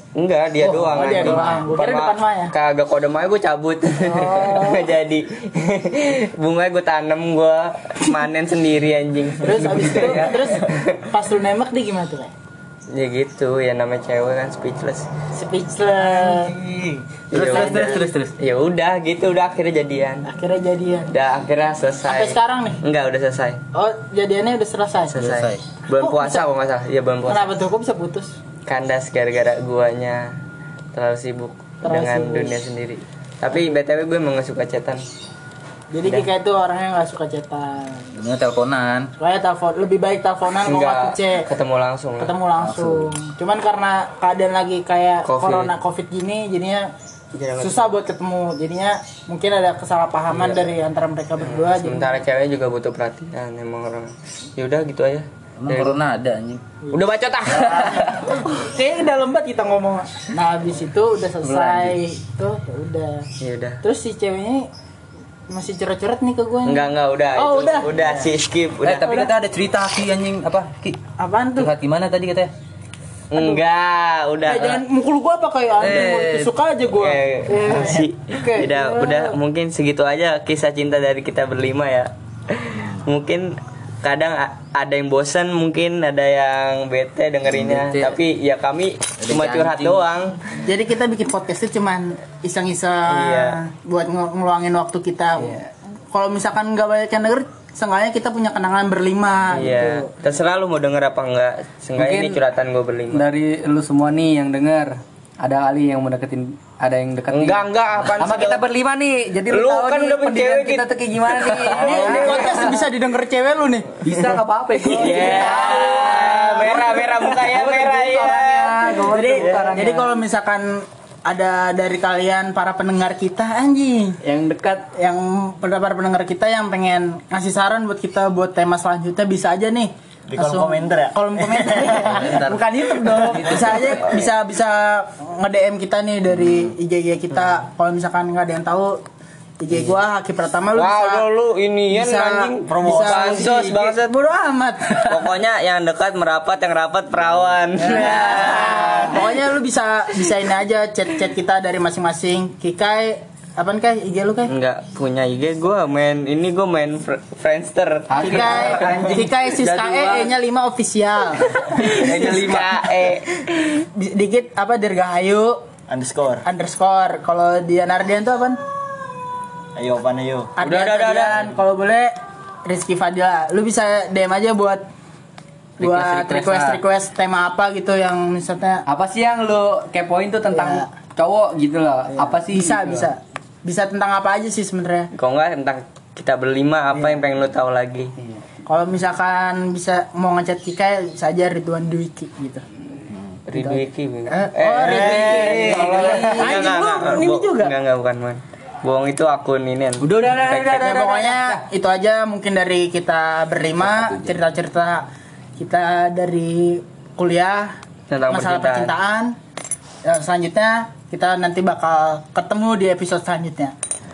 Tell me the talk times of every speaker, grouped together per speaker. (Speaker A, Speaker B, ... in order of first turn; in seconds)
Speaker A: 0.1-11.0, 12.9-15.1, 17.3-20.2, 21.1-23.6, 25.1-27.5, 28.7-30.3, 30.9-35.0, 40.6-42.3, 45.2-45.7, 47.3-47.9, 51.4-56.0, 56.9-58.2, 63.4-63.8, 66.7-69.1, 73.3-74.8, 77.0-90.4, 93.1-93.6, 99.5-103.2, 107.3-108.6, 109.5-112.6, 115.0-118.9, 140.7-144.0, 145.1-149.2, 154.5-159.2, 161.6-163.3, 170.6-171.4, 185.1-188.1, 193.5-201.0, 208.1-208.9
Speaker B: 0.6-2.5, 4.0-4.9, 9.4-12.3, 15.3-16.5, 17.3-18.1, 20.2-21.1, 22.0-22.8, 23.7-25.1, 26.0-26.4, 27.3-28.3, 31.8-32.5, 35.9-38.0, 39.2-41.5, 42.2-46.9, 47.6-52.1, 58.1-63.3, 63.8-64.7, 65.5-68.2, 69.0-69.3, 71.2-71.7, 74.5-79.3, 90.5-100.1, 111.7-114.2, 114.8-117.2, 119.0-124.2, 124.9-139.0, 139.6-141.2, 141.9-145.3, 147.8-154.5, 158.2-162.7, 163.8-165.6, 166.4-168.6, 170.6-172.1, 172.7-174.8, 175.8-178.8, 180.5-180.9, 182.1-185.1, 188.7-192.7, 193.5-197.7, 200.3-207.8, 208.3-209.3, 210.0-213.7
Speaker C: 16.0-18.3, 25.1-25.6, 38.1-39.1, 42.6-43.1, 55.6-56.6, 61.4-62.0, 68.8-71.0, 71.5-72.5, 75.8-76.5, 87.5-88.2, 89.2-90.0, 132.1-134.0, 203.8-204.4
Speaker D: 102.0-102.4, 103.1-112.8, 114.0-120.2, 124.2-124.9, 158.1-160.3, 162.2-162.5, 175.8-176.8, 178.9-183.1, 195.6-196.8, 200.0-201.6
Speaker E: 119.4-119.8, 130.3-132.3, 142.7-143.6, 165.9-166.4, 169.8-170.5, 194.8-196.5